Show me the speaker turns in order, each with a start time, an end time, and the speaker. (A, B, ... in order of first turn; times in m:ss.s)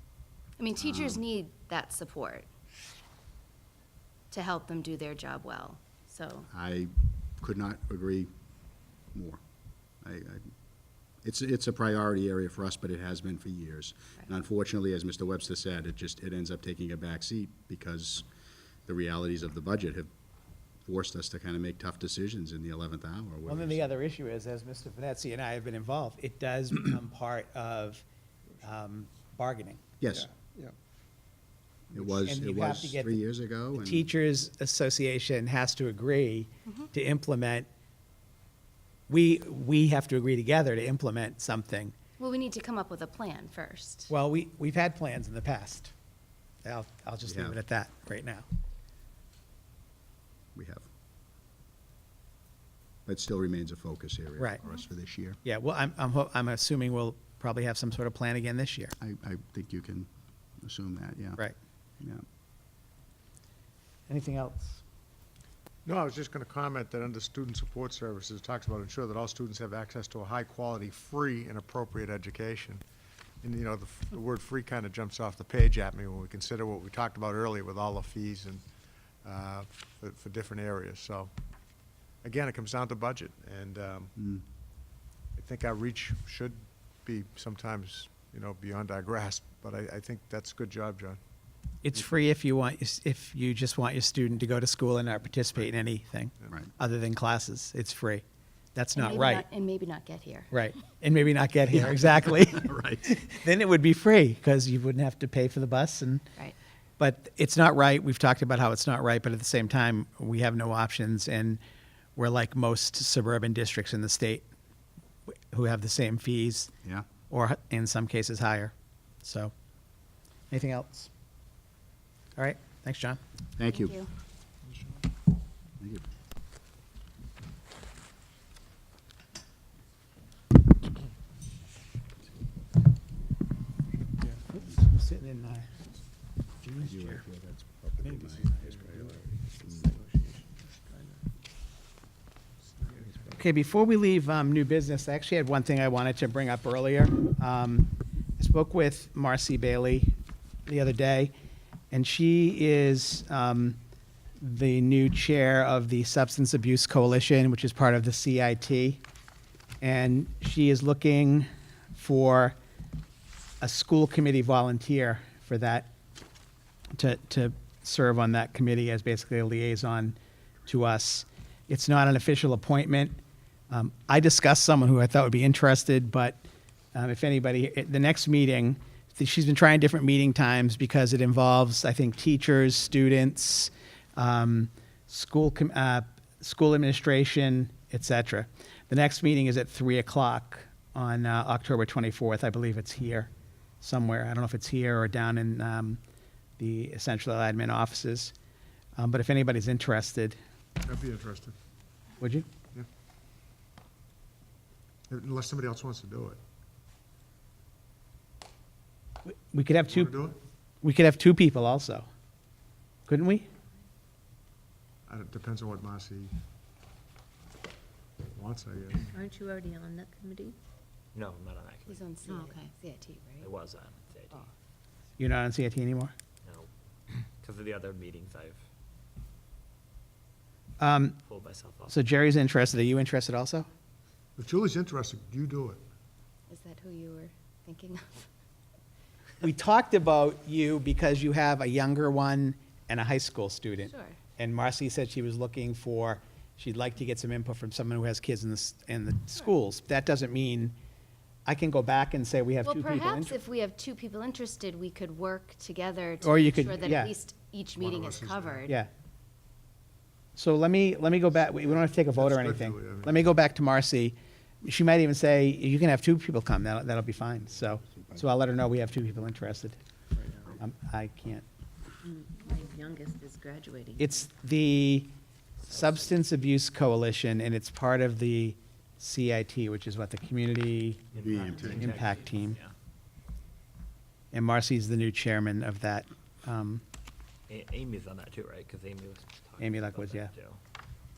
0:00.6-0:02.5 A
0:00.8-0:01.2 B
0:04.3-0:06.5 A
0:06.5-0:08.3 B
0:09.1-0:09.4 B
0:10.0-0:10.5 B
0:11.2-0:18.3 B
0:18.9-0:20.1 B
0:20.8-0:23.9 B
0:23.5-0:28.0 C
0:28.6-0:29.8 C
0:30.0-0:30.3 B
0:31.9-0:34.1 B
0:32.0-0:33.2 C
0:33.8-0:37.7 C
0:39.1-0:41.9 C
0:42.2-0:44.1 A
0:44.1-0:45.9 C
0:46.6-0:48.5 C
0:47.2-0:47.6 B
0:50.6-0:50.9 B
0:53.1-0:55.4 B
0:55.4-0:58.9 C
0:59.0-1:00.1 B
1:00.6-1:01.4 B
1:04.1-1:04.8 C
1:05.9-1:12.8 D
1:13.4-1:18.6 D
1:19.2-1:21.3 D
1:22.2-1:24.1 D
1:24.2-1:24.4 B
1:25.4-1:31.2 D
1:31.8-1:38.2 C
1:38.8-1:39.5 C
1:39.0-1:40.5 A
1:40.5-1:46.3 C
1:41.8-1:43.2 B
1:47.0-1:51.6 C
1:52.2-1:54.5 C
1:55.3-1:56.7 C
1:57.3-1:58.7 C
1:59.2-1:59.5 C
2:00.5-2:01.1 C
2:02.4-2:03.2 C
2:03.6-2:04.0 B
2:03.6-2:04.1 A
2:14.5-2:15.7 C
2:16.6-2:17.1 C
2:16.8-2:20.0 B
2:23.3-2:30.1 C
2:30.7-2:31.3 C
2:31.9-2:33.8 C
2:34.4-2:39.0 C
2:39.8-2:42.6 C
2:43.6-2:45.9 C
2:47.0-2:53.2 C
2:53.7-2:56.4 C
2:56.9-3:13.3 C
3:13.8-3:16.0 C
3:16.6-3:18.3 C
3:19.0-3:20.4 C
3:20.8-3:21.5 D
3:22.2-3:22.5 C
3:25.1-3:26.4 D
3:29.3-3:30.2 C
3:29.9-3:30.4 D
3:30.8-3:32.1 C
3:33.1-3:33.5 C
3:35.1-3:36.3 D
3:38.4-3:39.1 D
3:39.1-3:40.6 E
3:41.1-3:42.1 F
3:41.9-3:43.5 A
3:42.3-3:42.7 E
3:43.4-3:44.5 F
3:45.2-3:46.1 C
3:47.4-3:48.6 F
3:50.8-3:51.2 C
3:51.2-3:51.9 F
3:51.9-3:53.7 C
3:54.4-3:55.8 D
3:56.5-3:58.3 A
3:59.4-4:10.8 C
4:03.8-4:04.2 A
4:11.5-4:13.4 C
4:12.6-4:18.8 A
4:16.2-4:17.1 C
4:17.8-4:18.6 D
4:20.4-4:29.8 C
4:22.1-4:23.2 D
4:27.8-4:28.3 B
4:30.2-4:30.6 E
4:30.6-4:31.4 C
4:32.0-4:34.2 E
4:34.0-4:35.1 C
4:35.7-4:41.1 C
4:35.7-4:36.1 F
4:41.1-4:42.7 F
4:41.2-4:41.9 B
4:41.7-4:42.6 C
4:44.3-4:46.8 C
4:47.5-4:50.6 F
4:49.6-4:50.3 C